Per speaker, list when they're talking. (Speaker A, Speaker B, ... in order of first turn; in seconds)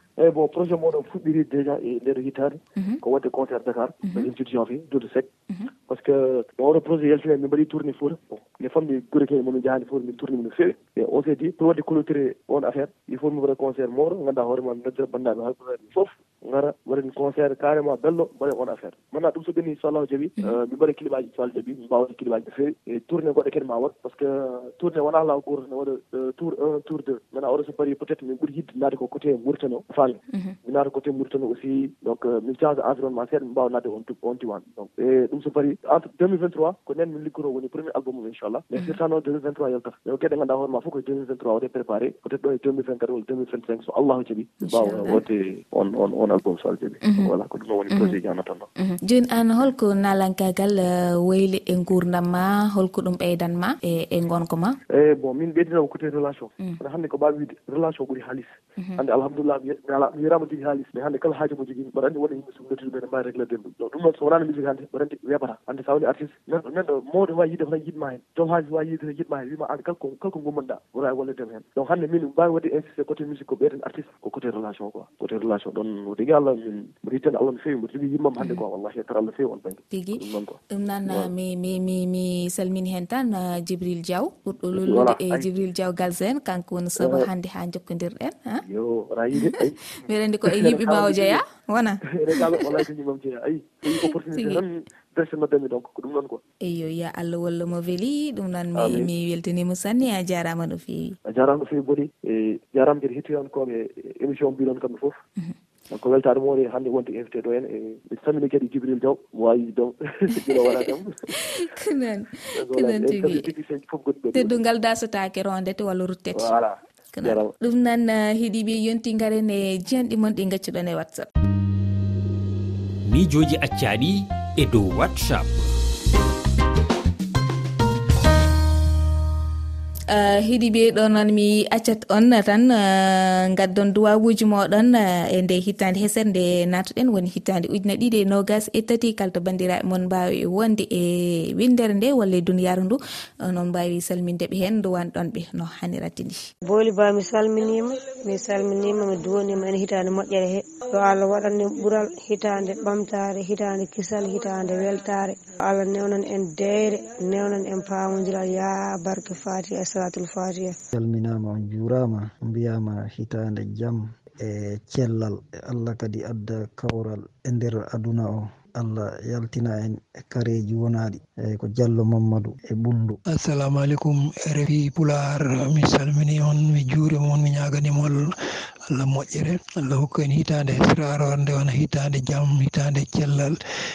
Speaker A: 0.2-5.3, 5.9-48.7, 54.9-81.3, 84.7-85.5, 87.0-87.3, 88.7-89.9, 90.5-91.4, 92.1-96.4, 98.8-99.1, 101.3-105.2, 105.9-111.2, 112.6-114.6, 116.3-117.5
Speaker B: 44.6-45.2, 47.9-48.2, 48.8-54.8, 78.4-78.6, 79.9-80.2, 80.7-88.6, 90.0-92.6, 94.4-94.6, 96.6-101.2, 111.4-113.5, 114.3-116.5, 117.1-121.3, 130.1-146.5
Speaker C: 123.1-125.6
Speaker D: 146.7-160.8
Speaker E: 160.9-173.2
Speaker F: 173.3-178.2, 178.9-183.6